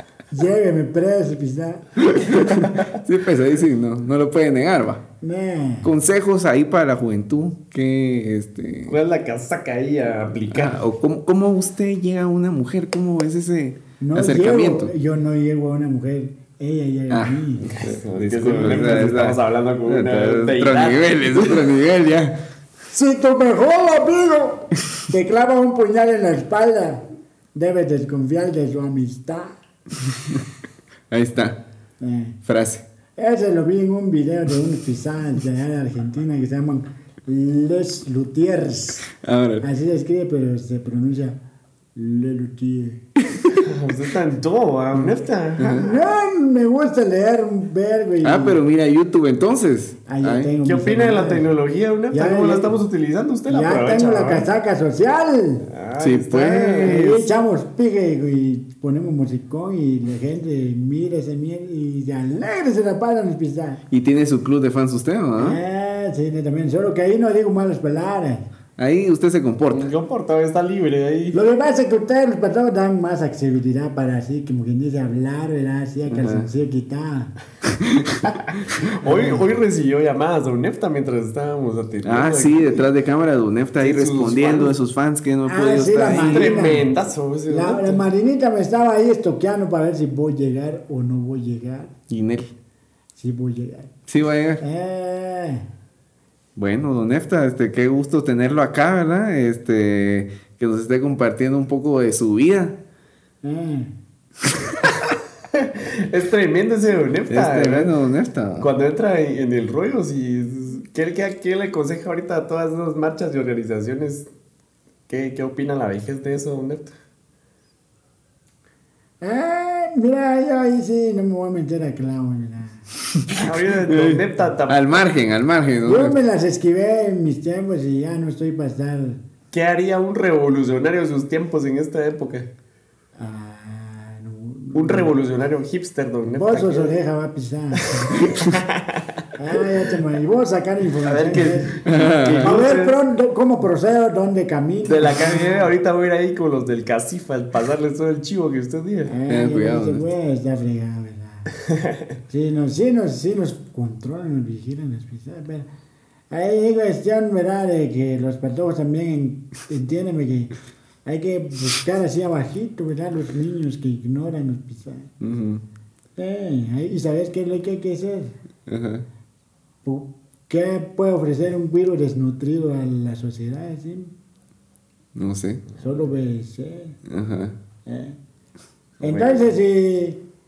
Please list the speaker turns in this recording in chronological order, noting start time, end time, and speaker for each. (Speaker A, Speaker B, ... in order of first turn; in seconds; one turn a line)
Speaker A: 0.3-2.6
Speaker B: 2.2-5.0
Speaker A: 5.2-5.9
Speaker B: 5.8-8.9
Speaker C: 8.9-10.8
Speaker B: 10.5-14.9
Speaker A: 14.0-17.7
Speaker B: 17.1-22.4
Speaker C: 17.7-21.7
Speaker A: 18.4-19.1
Speaker A: 22.9-29.6
Speaker B: 31.1-31.6
Speaker A: 32.0-32.4
Speaker B: 32.5-32.8
Speaker A: 33.1-39.1
Speaker B: 39.1-39.6
Speaker A: 39.6-41.4
Speaker A: 41.9-43.0
Speaker C: 43.6-46.1
Speaker B: 45.6-45.9
Speaker A: 45.7-48.6
Speaker B: 48.2-50.5
Speaker A: 50.1-51.5
Speaker C: 50.6-54.5
Speaker A: 52.1-52.7
Speaker A: 53.5-55.7
Speaker C: 55.7-57.1
Speaker B: 56.0-57.2
Speaker A: 56.4-63.8
Speaker B: 63.9-65.6
Speaker A: 65.4-68.5
Speaker B: 68.8-69.9
Speaker C: 69.7-71.4
Speaker A: 71.3-77.3
Speaker B: 76.1-76.5
Speaker B: 77.7-78.2
Speaker C: 78.2-82.8
Speaker A: 79.0-79.4
Speaker B: 82.0-86.6
Speaker C: 83.8-84.7
Speaker A: 85.5-86.9
Speaker C: 86.1-88.0
Speaker A: 87.5-91.9
Speaker B: 92.1-92.5
Speaker A: 93.2-93.9
Speaker B: 94.1-94.6
Speaker A: 94.6-95.7
Speaker B: 96.5-102.8
Speaker A: 103.4-103.9
Speaker C: 105.5-107.9
Speaker B: 107.3-108.7
Speaker C: 108.6-114.3
Speaker C: 115.1-116.9
Speaker A: 119.2-122.8
Speaker C: 123.3-124.9
Speaker B: 123.9-126.1
Speaker A: 125.8-129.2
Speaker C: 129.5-132.5
Speaker A: 133.2-135.2
Speaker C: 134.7-136.9
Speaker A: 136.4-138.2
Speaker C: 138.0-139.0
Speaker A: 139.4-145.7
Speaker C: 141.0-143.0
Speaker B: 141.8-142.5
Speaker C: 144.8-149.1
Speaker A: 149.1-151.5
Speaker B: 149.3-150.0
Speaker A: 152.3-155.7
Speaker A: 156.3-160.5
Speaker A: 161.0-165.1
Speaker B: 165.2-165.6
Speaker A: 166.2-168.3
Speaker B: 168.7-169.1
Speaker A: 169.8-174.1
Speaker B: 175.1-175.6
Speaker A: 175.8-177.0
Speaker B: 177.1-177.6
Speaker A: 177.8-178.2
Speaker C: 179.0-179.4
Speaker A: 179.0-180.2